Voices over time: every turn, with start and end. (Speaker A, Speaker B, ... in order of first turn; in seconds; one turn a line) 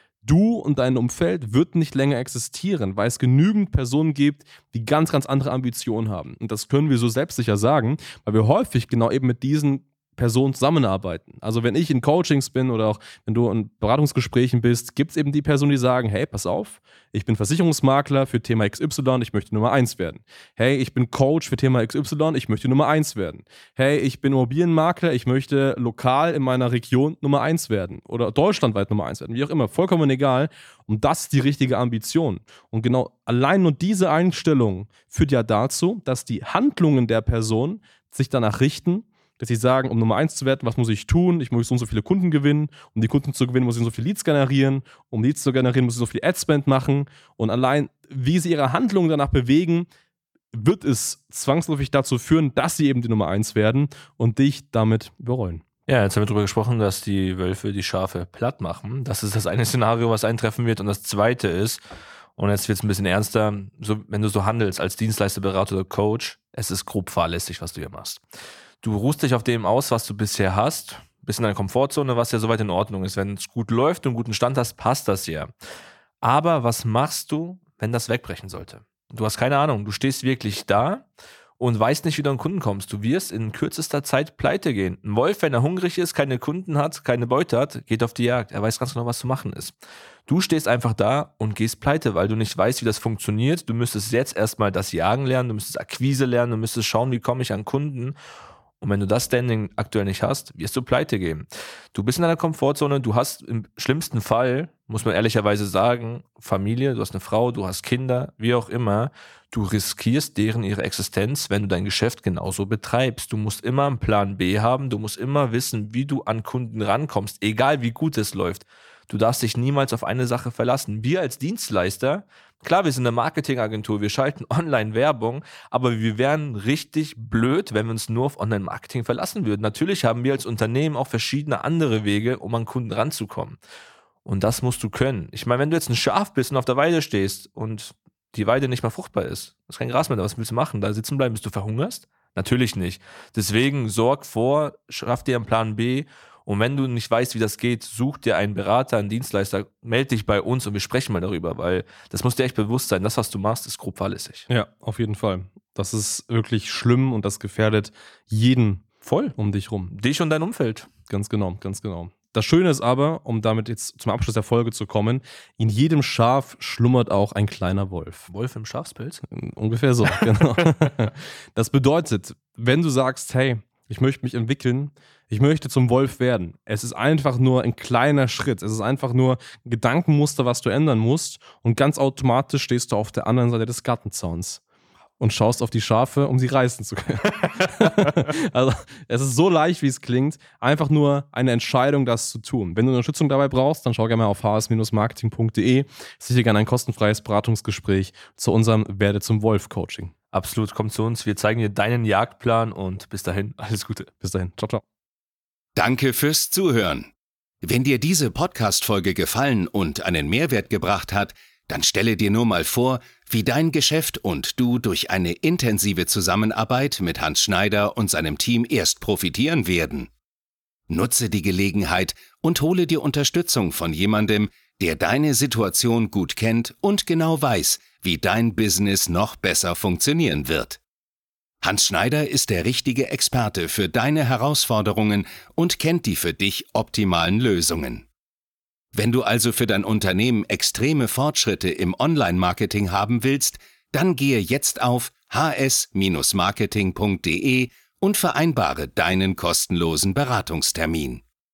Speaker A: 0.2-49.9
Speaker A: 50.5-55.6
Speaker B: 55.9-61.8
Speaker B: 62.4-68.2
Speaker B: 68.8-75.5
Speaker B: 76.2-81.1
Speaker B: 81.6-89.8
Speaker B: 90.3-98.2
Speaker B: 98.8-133.6
Speaker B: 134.2-154.5
Speaker A: 154.5-159.9
Speaker B: 159.0-159.3
Speaker B: 159.9-160.9
Speaker A: 161.1-168.3
Speaker B: 168.3-169.2
Speaker A: 169.3-184.6
Speaker B: 170.4-170.9
Speaker A: 185.2-200.1
Speaker B: 200.3-204.1
Speaker A: 204.2-204.8
Speaker C: 205.8-207.1
Speaker C: 207.6-220.1
Speaker C: 220.9-230.8
Speaker C: 231.6-238.1
Speaker C: 238.9-251.2